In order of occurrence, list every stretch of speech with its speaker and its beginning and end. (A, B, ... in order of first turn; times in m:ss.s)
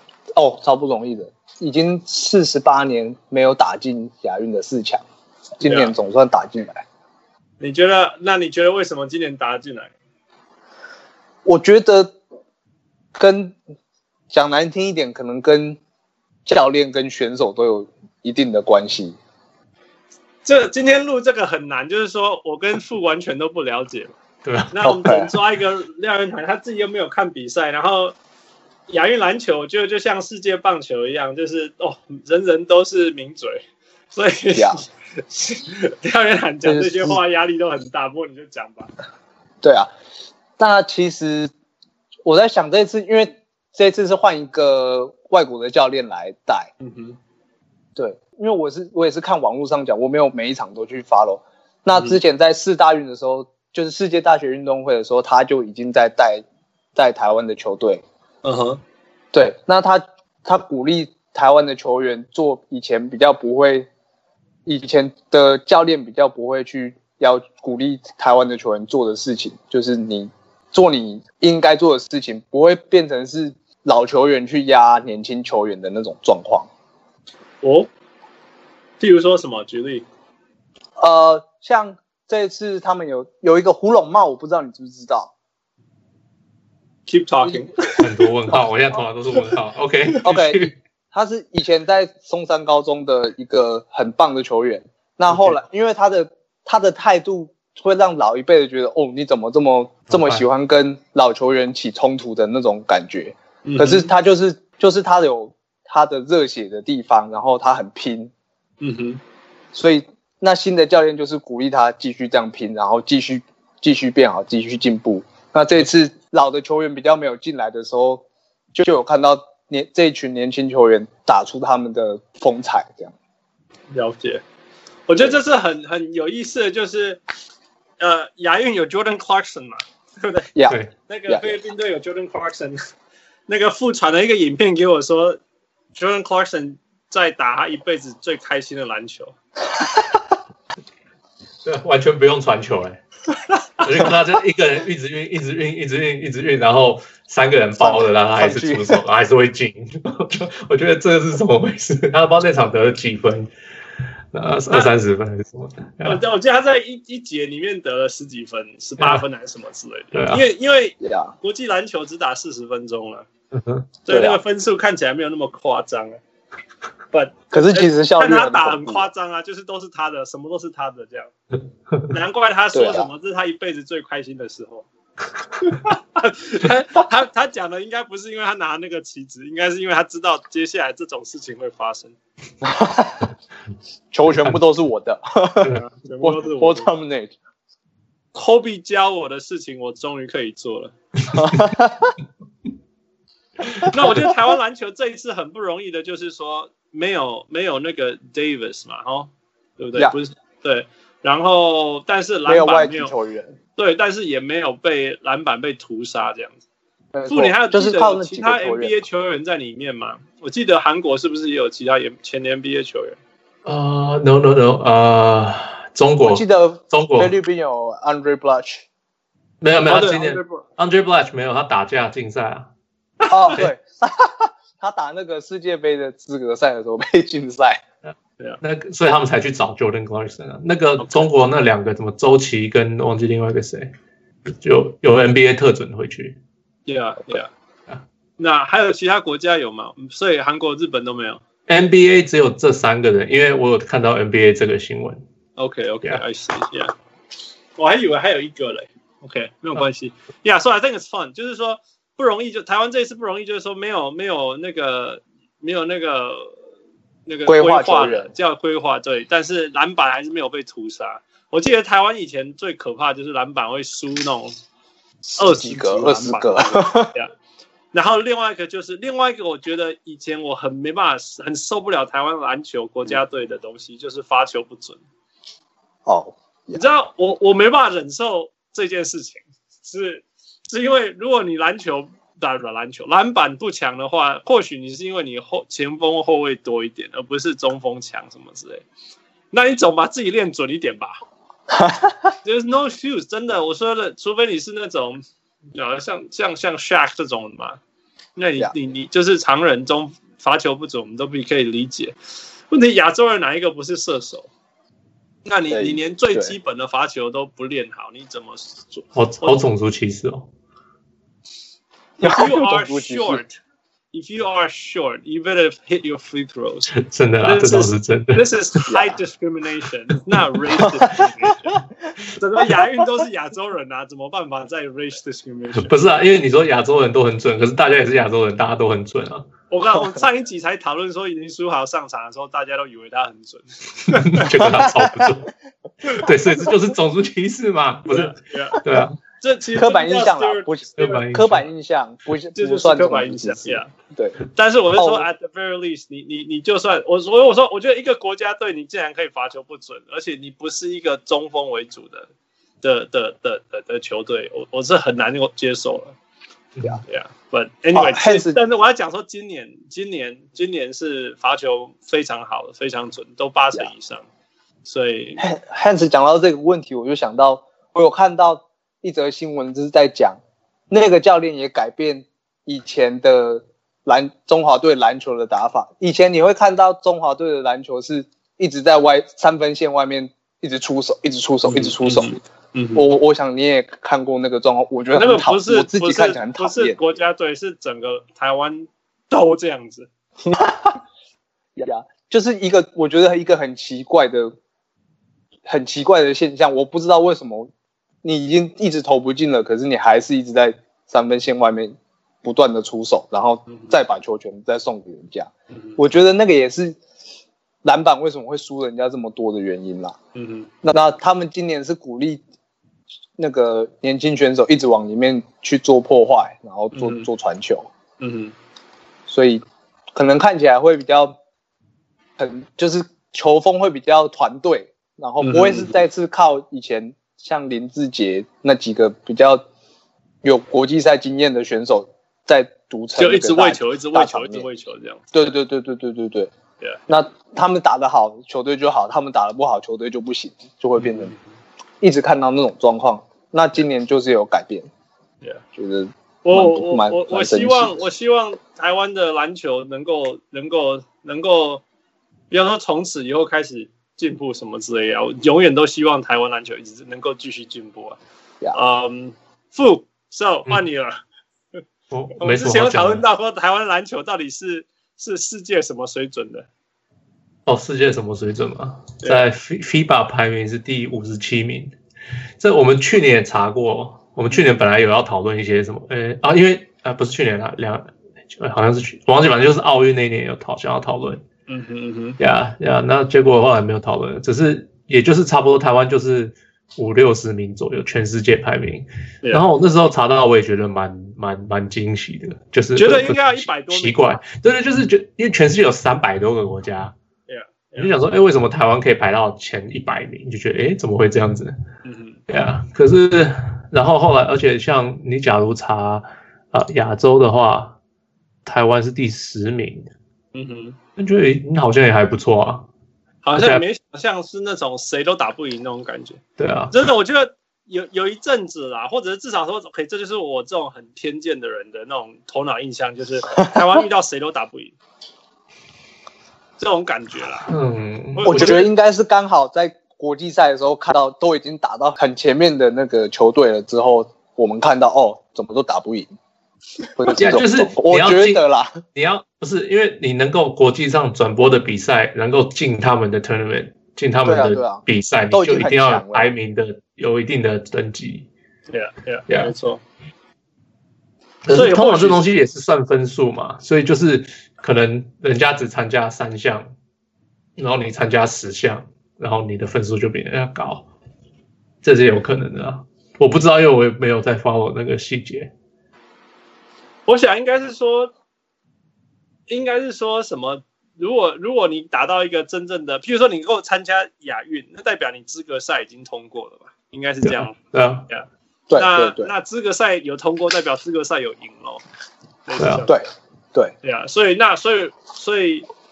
0:00.3-0:05.0 A
0:05.6-0:06.8 A
0:05.6-0:05.9 B
0:07.6-0:09.9 B
0:11.4-0:12.2 A
0:13.2-0:13.6 A
0:14.3-0:15.8 A
0:16.5-0:19.2 A
0:20.4-0:24.2 B
0:24.4-0:24.7 C
0:24.7-0:28.2 B
0:24.8-0:25.3 A
0:28.9-0:38.9 B
0:34.6-0:34.8 A
0:36.6-0:37.2 A
0:39.6-0:39.9 A
0:40.6-0:41.5 A
0:42.2-0:46.7 A
0:46.8-0:47.2 B
0:48.0-0:56.4 A
0:57.0-0:58.0 A
0:58.4-0:58.8 B
0:59.3-1:03.9 A
1:04.7-1:16.7 A
1:17.6-1:17.9 B
1:19.0-1:20.0 B
1:21.0-1:25.3 A
1:27.1-1:28.0 B
1:28.0-1:30.7 C
1:30.2-1:48.3 A
1:40.1-1:40.4 C
1:43.6-1:44.1 B
1:48.8-1:49.2 B
1:49.7-2:03.1 A
2:03.9-2:04.4 B
2:05.1-2:07.2 B
2:08.0-2:10.5 B
2:10.6-2:11.6 A
2:11.1-2:12.8 B
2:13.5-2:15.4 B
2:15.9-2:19.4 B
2:19.8-2:20.2 A
2:21.6-2:23.0 C
2:23.8-2:33.5 C
2:27.8-2:29.0 A
2:34.3-2:36.2 C
2:36.0-2:43.3 B
2:39.0-2:39.2 C
2:40.1-2:40.5 C
2:41.0-2:41.3 A
2:43.5-2:43.9 C
2:44.0-2:46.2 B
2:44.1-2:44.4 A
2:47.1-2:51.3 B
2:47.5-2:49.1 A
2:52.1-2:54.9 B
2:52.7-2:53.1 A
2:55.6-3:02.2 B
3:02.6-3:03.3 A
3:04.1-3:07.4 A
3:05.9-3:06.9 B
3:08.3-3:10.9 B
3:11.3-3:12.2 A
3:13.8-3:14.3 A
3:13.9-3:23.1 B
3:22.5-3:23.6 A
3:23.8-3:26.6 B
3:27.1-3:29.0 A
3:27.3-3:33.2 B
3:33.6-3:37.3 C
3:36.2-3:38.8 A
3:39.6-3:42.7 C
3:39.9-3:40.6 B
3:43.2-3:43.6 B
3:43.3-3:47.8 A
3:48.6-3:53.9 C
3:51.0-3:51.3 B
3:54.6-3:56.4 C
3:56.9-3:57.5 B
3:58.4-4:01.4 B
4:01.7-4:05.2 C
4:05.6-4:07.0 B
4:07.8-4:16.5 B
4:17.3-4:24.6 B
4:17.5-4:18.3 A
4:25.2-4:27.1 A
4:25.4-4:27.3 B
4:27.9-4:35.0 B
4:36.1-4:36.8 A
4:36.8-4:48.8 B
4:49.5-4:51.2 B
4:51.7-4:52.3 A
4:52.4-4:55.2 B
4:55.7-4:57.8 B
4:58.4-5:02.2 B
5:02.7-5:04.5 B
5:05.4-5:09.6 B
5:05.7-5:06.5 A
5:09.2-5:10.5 C
5:12.2-5:13.4 A
5:12.2-5:13.6 B
5:14.1-5:16.9 B
5:17.0-5:18.5 C
5:17.4-5:21.8 B
5:18.9-5:19.2 A
5:22.3-5:25.9 B
5:25.8-5:29.5 C
5:29.7-5:34.5 B
5:34.1-5:35.5 C
5:34.6-5:35.3 A
5:36.1-5:39.2 C
5:38.1-5:38.8 B
5:39.4-5:41.2 B
5:39.8-5:44.4 A
5:41.0-5:41.6 C
5:42.6-5:43.9 B
5:44.5-5:52.3 B
5:45.0-5:45.3 A
5:52.8-5:56.2 B
5:56.8-5:57.0 C
5:57.1-6:04.2 B
5:57.9-5:58.6 A
6:04.8-6:05.5 B
6:05.4-6:10.4 A
6:10.9-6:22.4 A
6:21.6-6:23.0 B
6:23.0-6:27.0 A
6:25.1-6:30.1 B
6:30.5-6:31.0 A
6:31.8-6:34.5 A
6:35.7-6:37.7 A
6:38.2-6:47.0 A
6:47.8-6:50.2 A
6:50.4-6:50.7 B
6:50.8-6:52.4 A
6:53.4-6:57.9 A
6:56.9-6:57.3 B
6:58.2-6:58.6 B
6:59.3-6:59.6 A
7:00.1-7:01.4 A
7:02.4-7:09.6 A
7:05.4-7:06.0 B
7:10.4-7:14.7 A
7:13.2-7:15.2 B
7:15.3-7:16.5 A
7:17.1-7:21.3 A
7:21.0-7:21.4 B
7:22.0-7:24.9 A
7:25.8-7:28.0 A
7:26.4-7:31.8 B
7:32.5-7:38.2 B
7:38.7-7:41.2 B
7:42.1-7:43.2 C
7:42.4-7:46.7 B
7:47.7-7:52.0 C
7:52.6-8:01.4 C
8:01.7-8:02.4 B
8:02.4-8:17.1 C
8:13.0-8:14.3 B
8:17.5-8:18.1 B
8:18.0-8:21.8 C
8:22.0-8:22.4 B
8:22.5-8:28.0 C
8:28.6-8:30.1 C
8:30.5-8:31.0 B
8:31.2-8:32.9 C
8:33.4-8:45.0 B
8:33.6-8:33.8 C
8:36.6-8:37.0 C
8:46.8-8:47.7 B
8:47.7-8:48.8 C
8:48.4-8:48.9 B
8:48.5-8:56.3 A
8:57.2-8:59.0 A
8:57.4-9:08.5 C
9:04.4-9:06.5 A
9:08.9-9:10.0 B
9:11.6-9:16.9 C
9:11.7-9:12.4 B
9:17.8-9:21.1 C
9:22.0-9:25.7 C
9:27.3-9:28.3 B
9:29.7-9:37.8 B
9:37.4-9:38.3 C
9:38.3-9:42.0 B
9:38.9-9:39.5 A
9:42.7-9:43.2 B
9:42.8-9:43.1 C
9:43.1-9:43.9 A
9:44.0-9:45.9 B